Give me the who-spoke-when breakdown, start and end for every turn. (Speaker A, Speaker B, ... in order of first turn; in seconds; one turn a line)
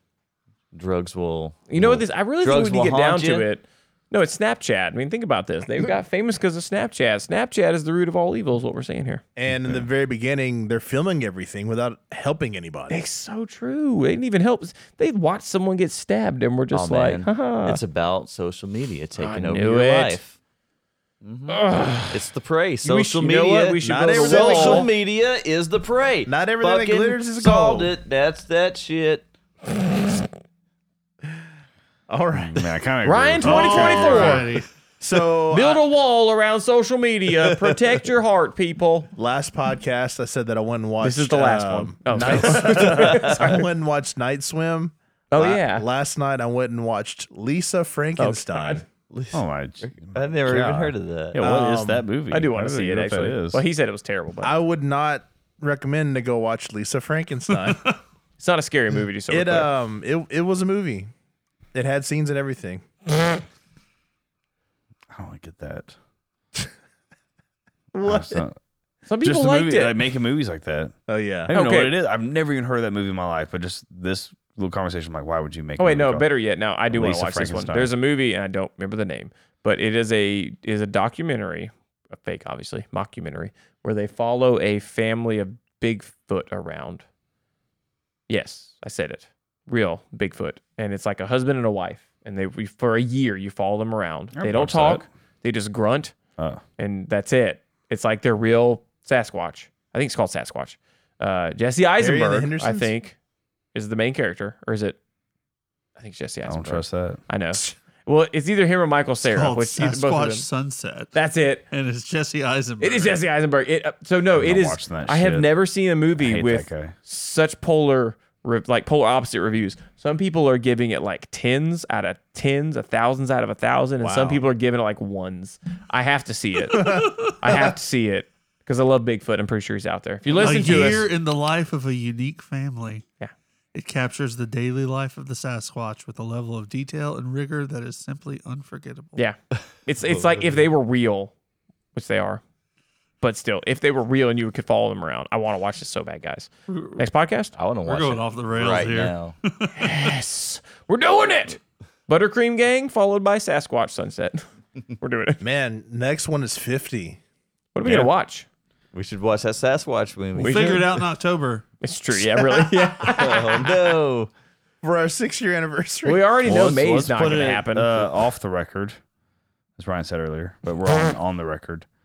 Speaker A: 0.7-3.5
Speaker B: 1.7-9.2
Speaker C: 9.4-13.0
Speaker B: 12.9-17.8
Speaker A: 16.7-20.4
Speaker B: 19.2-20.2
Speaker A: 21.2-29.3
Speaker B: 21.5-22.2
Speaker B: 22.8-24.9
Speaker C: 23.8-24.9
Speaker C: 26.3-27.9
Speaker C: 32.1-32.7
Speaker D: 32.4-34.5
Speaker B: 33.0-34.5
Speaker E: 33.4-34.7
Speaker C: 33.9-34.4
Speaker C: 35.0-35.8
Speaker B: 35.5-39.1
Speaker C: 39.1-48.8
Speaker B: 41.0-43.7
Speaker A: 42.8-43.1
Speaker B: 45.3-45.9
Speaker B: 48.2-48.8
Speaker A: 49.1-51.4
Speaker D: 49.3-53.6
Speaker C: 51.4-52.1
Speaker B: 52.3-54.5
Speaker C: 54.4-57.9
Speaker B: 58.4-59.7
Speaker C: 59.3-61.1
Speaker C: 61.7-62.9
Speaker D: 65.1-66.0
Speaker C: 67.9-68.4
Speaker D: 68.0-68.6
Speaker B: 69.1-70.0
Speaker D: 69.2-71.0
Speaker C: 71.1-71.5
Speaker D: 71.5-76.3
Speaker B: 71.5-72.0
Speaker B: 75.8-87.0
Speaker D: 76.9-77.9
Speaker B: 88.3-96.1
Speaker D: 94.3-95.1
Speaker B: 96.8-103.1
Speaker C: 102.0-102.9
Speaker B: 103.7-105.0
Speaker B: 106.0-110.5
Speaker D: 106.5-107.2
Speaker E: 109.2-111.2
Speaker B: 111.2-111.7
Speaker E: 111.7-113.2
Speaker B: 112.8-131.1
Speaker D: 114.4-115.5
Speaker D: 116.2-117.0
Speaker C: 124.0-124.5
Speaker C: 126.7-127.7
Speaker E: 126.7-127.3
Speaker E: 130.3-133.0
Speaker E: 133.7-139.2
Speaker B: 139.2-141.3
Speaker A: 140.1-140.5
Speaker B: 141.9-142.4
Speaker B: 143.2-147.5
Speaker E: 146.7-147.1
Speaker A: 147.6-149.4
Speaker E: 147.8-149.9
Speaker B: 149.8-154.4
Speaker B: 155.0-155.4
Speaker C: 155.4-157.2
Speaker B: 157.8-158.5
Speaker D: 157.8-158.1
Speaker A: 158.9-160.8
Speaker B: 160.4-160.9
Speaker E: 160.4-161.7
Speaker B: 161.8-163.7
Speaker A: 163.1-164.3
Speaker C: 164.8-166.2
Speaker B: 166.0-168.1
Speaker D: 166.4-169.0
Speaker D: 169.8-171.9